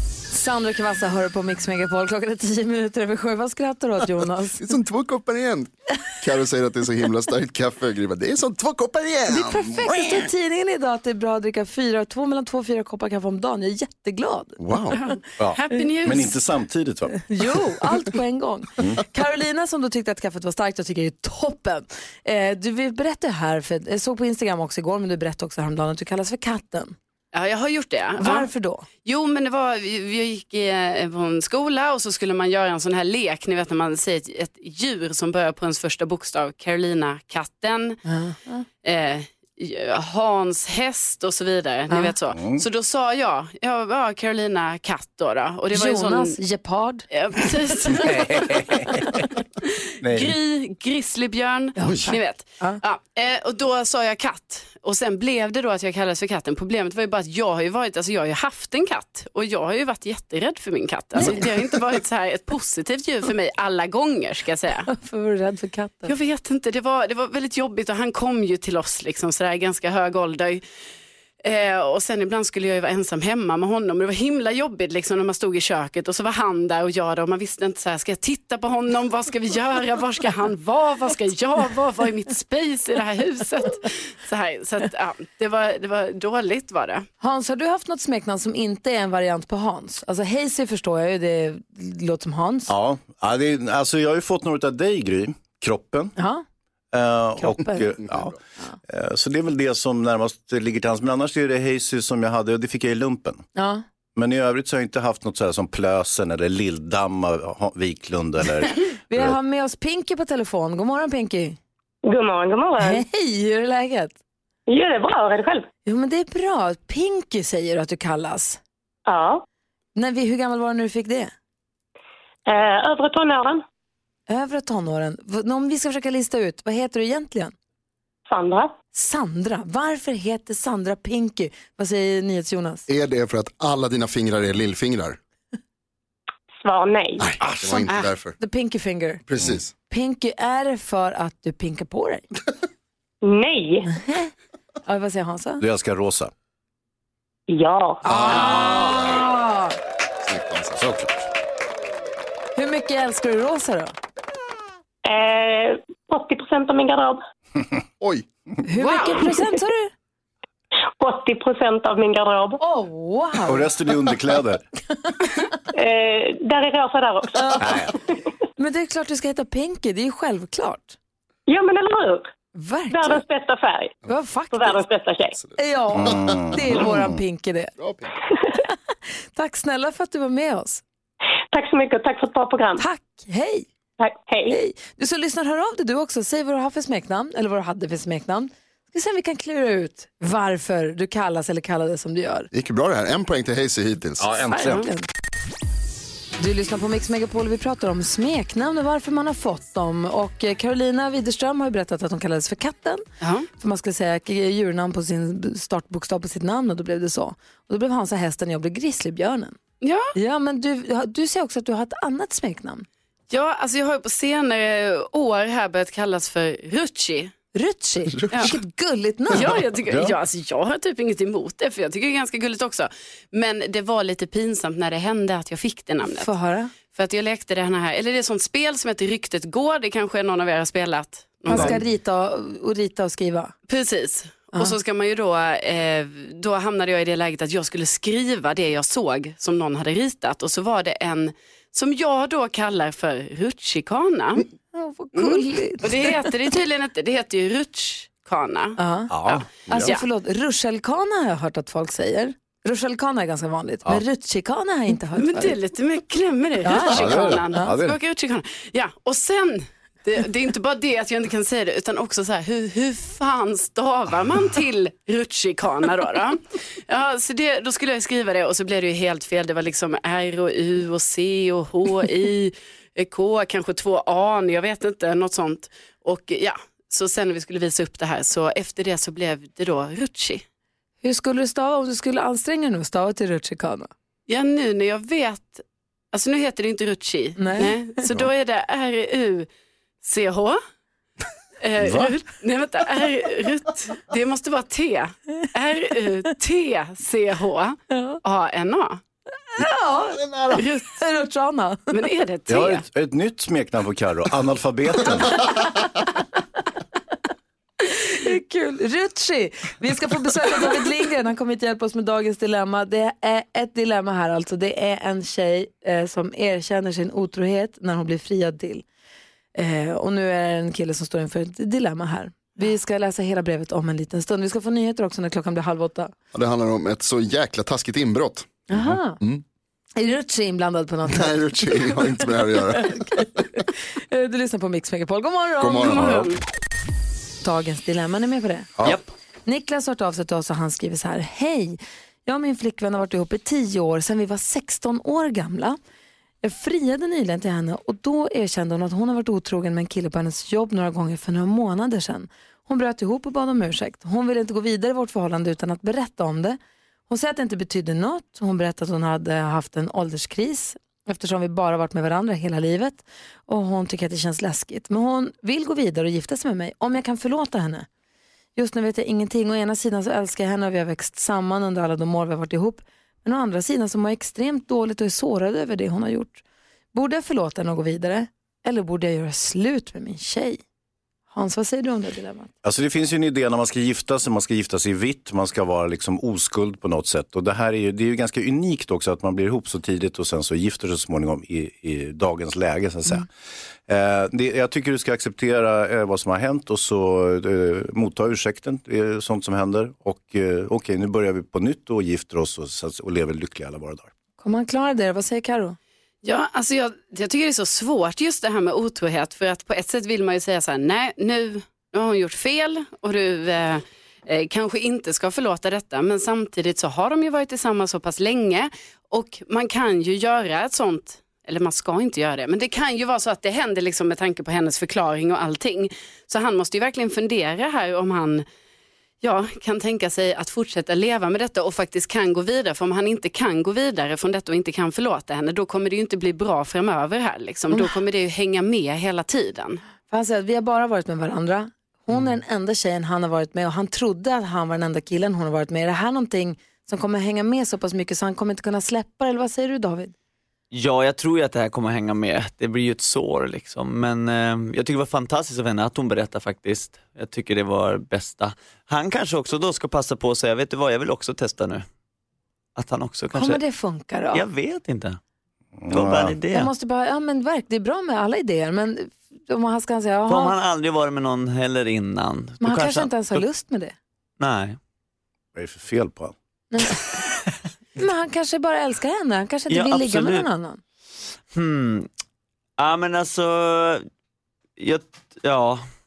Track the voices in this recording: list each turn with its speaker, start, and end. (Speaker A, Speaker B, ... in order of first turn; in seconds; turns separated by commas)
Speaker A: 0.3-4.7, Speaker B: 4.5-10.2, Speaker A: 9.3-14.6, Speaker B: 14.6-15.0, Speaker C: 14.9-16.4, Speaker D: 15.4-17.2, Speaker A: 17.2-26.9, Speaker C: 27.3-28.5, Speaker A: 28.2-28.9, Speaker C: 29.1-38.0, Speaker A: 38.1-38.6, Speaker C: 38.8-46.4, Speaker A: 41.9-42.1, Speaker D: 42.3-42.6, Speaker A: 45.7-47.1, Speaker C: 47.1-48.8, Speaker D: 48.0-49.2, Speaker C: 49.4-64.9, Speaker D: 50.0-50.3, Speaker A: 51.8-52.8, Speaker A: 61.1-61.5, Speaker A: 64.9-66.2, Speaker C: 66.1-70.6, Speaker C: 71.4-87.0, Speaker A: 87.2-92.7, Speaker D: 92.7-96.2, Speaker A: 96.2-96.4, Speaker D: 96.9-98.4, Speaker A: 97.4-98.0, Speaker D: 98.9-103.5, Speaker A: 103.5-103.8, Speaker D: 104.2-109.4, Speaker A: 109.1-111.6, Speaker E: 112.1-113.0, Speaker A: 112.8-114.2, Speaker E: 114.7-115.7, Speaker A: 115.9-118.6, Speaker E: 119.1-119.4, Speaker A: 120.0-121.3, Speaker E: 122.5-123.7, Speaker A: 124.3-127.5, Speaker E: 128.3-128.7, Speaker A: 128.9-132.8, Speaker B: 132.9-135.2, Speaker E: 136.6-137.3, Speaker B: 137.2-138.4, Speaker D: 137.4-137.9, Speaker A: 138.4-139.2, Speaker B: 139.3-139.7, Speaker A: 139.9-142.2, Speaker E: 143.2-143.9, Speaker A: 143.9-144.3, Speaker A: 144.9-145.6, Speaker D: 145.6-146.3, Speaker E: 147.5-148.0, Speaker D: 148.1-149.0, Speaker A: 148.1-149.8, Speaker B: 150.2-150.8, Speaker D: 150.8-151.2, Speaker A: 152.6-153.9, Speaker E: 155.1-157.2, Speaker B: 158.0-158.3, Speaker A: 158.6-159.9, Speaker C: 158.8-159.1, Speaker E: 161.0-162.6, Speaker A: 162.6-163.7, Speaker D: 163.5-164.6, Speaker A: 165.1-165.4, Speaker E: 165.8-167.4, Speaker A: 167.3-167.8, Speaker D: 167.6-167.9, Speaker A: 168.6-171.0, Speaker E: 171.5-172.3, Speaker A: 172.6-173.2, Speaker E: 172.9-174.0, Speaker A: 174.1-174.8, Speaker E: 174.5-175.4, Speaker A: 175.6-177.8, Speaker D: 175.9-177.0, Speaker B: 177.8-178.1, Speaker A: 179.3-180.8, Speaker E: 181.5-182.8, Speaker A: 182.8-183.7, Speaker E: 184.0-184.6, Speaker A: 184.5-192.5, Speaker B: 192.5-194.3, Speaker D: 194.2-194.9, Speaker C: 194.5-194.9, Speaker A: 194.6-195.1, Speaker A: 196.4-203.0, Speaker C: 203.2-203.5, Speaker A: 203.6-209.6, Speaker C: 209.8-210.1, Speaker A: 210.2-212.9, Speaker C: 213.3-217.3, Speaker A: 217.6-219.5, Speaker C: 219.3-226.3, Speaker D: 219.9-220.2, Speaker A: 226.1-226.7, Speaker C: 226.9-231.8, Speaker A: 231.5-233.5, Speaker B: 231.5-231.8, Speaker C: 233.7-244.5, Speaker A: 244.7-246.2, Speaker C: 245.1-250.0, Speaker A: 248.8-249.2, Speaker D: 249.1-249.6, Speaker A: 249.7-255.6, Speaker C: 255.2-266.4, Speaker A: 256.6-257.7, Speaker D: 256.9-258.0, Speaker C: 266.9-280.4, Speaker A: 281.0-283.9, Speaker C: 284.3-289.5, Speaker A: 287.4-287.8, Speaker C: 290.0-290.6, Speaker C: 291.6-299.0, Speaker D: 291.8-292.1, Speaker A: 297.9-298.2, Speaker A: 299.6-300.2, Speaker C: 300.5-300.9, Speaker A: 300.8-302.0, Speaker C: 301.9-302.8, Speaker D: 302.5-305.4, Speaker A: 307.9-318.9, Speaker A: 319.6-326.1, Speaker B: 326.3-328.7, Speaker A: 328.7-329.2, Speaker A: 330.0-331.8, Speaker B: 331.1-333.2, Speaker A: 332.8-336.1, Speaker B: 335.6-336.4, Speaker C: 335.9-336.4, Speaker A: 337.4-338.7, Speaker A: 339.5-345.8, Speaker A: 346.4-356.6, Speaker A: 357.1-367.9, Speaker A: 368.6-376.4, Speaker A: 376.9-380.6, Speaker A: 381.3-382.5, Speaker D: 382.6-393.3, Speaker D: 393.9-404.1, Speaker A: 404.4-405.8, Speaker C: 406.2-428.4, Speaker C: 429.2-439.8, Speaker A: 440.1-450.1, Speaker F: 450.7-461.9, Speaker F: 462.8-463.6, Speaker A: 463.3-464.4, Speaker F: 464.3-465.2, Speaker D: 465.8-466.4, Speaker F: 465.9-466.7, Speaker A: 466.5-470.6, Speaker F: 470.3-473.4, Speaker A: 472.6-473.9, Speaker F: 474.4-474.8, Speaker D: 475.6-476.3, Speaker A: 476.7-477.1, Speaker A: 478.0-480.8, Speaker F: 479.7-480.5, Speaker F: 481.5-482.1, Speaker F: 482.8-484.0, Speaker F: 484.8-485.8